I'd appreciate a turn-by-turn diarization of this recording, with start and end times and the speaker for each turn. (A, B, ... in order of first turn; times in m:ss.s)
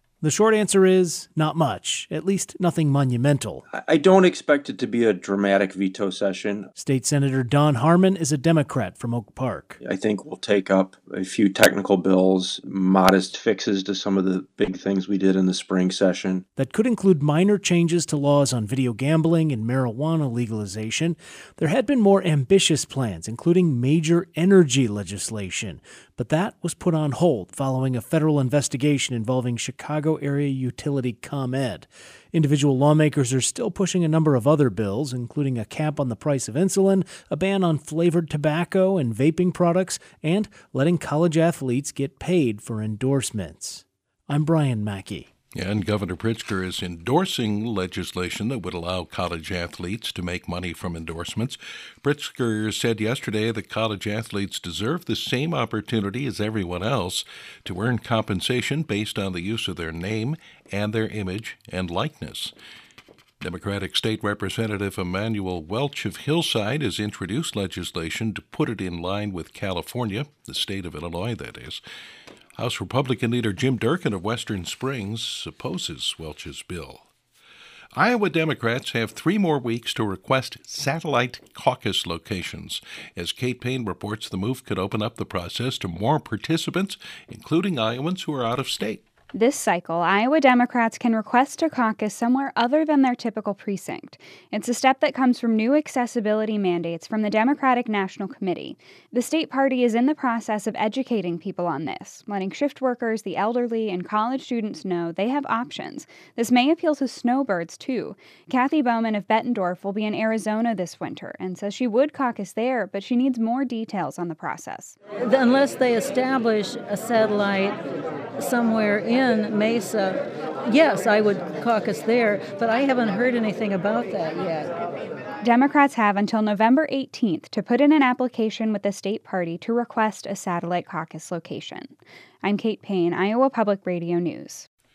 0:00.2-0:03.6 A
0:03.7-0:06.7 B
0:06.8-0:09.8 A
0:09.8-0:16.4 B
0:16.6-0:45.3 A
0:45.5-1:02.5 C
1:03.4-1:11.8 C
1:12.6-1:17.1 C
1:18.0-1:29.0 C
1:29.3-1:55.0 D
1:55.2-1:57.8 E
1:58.4-2:04.7 E
2:05.4-2:14.7 D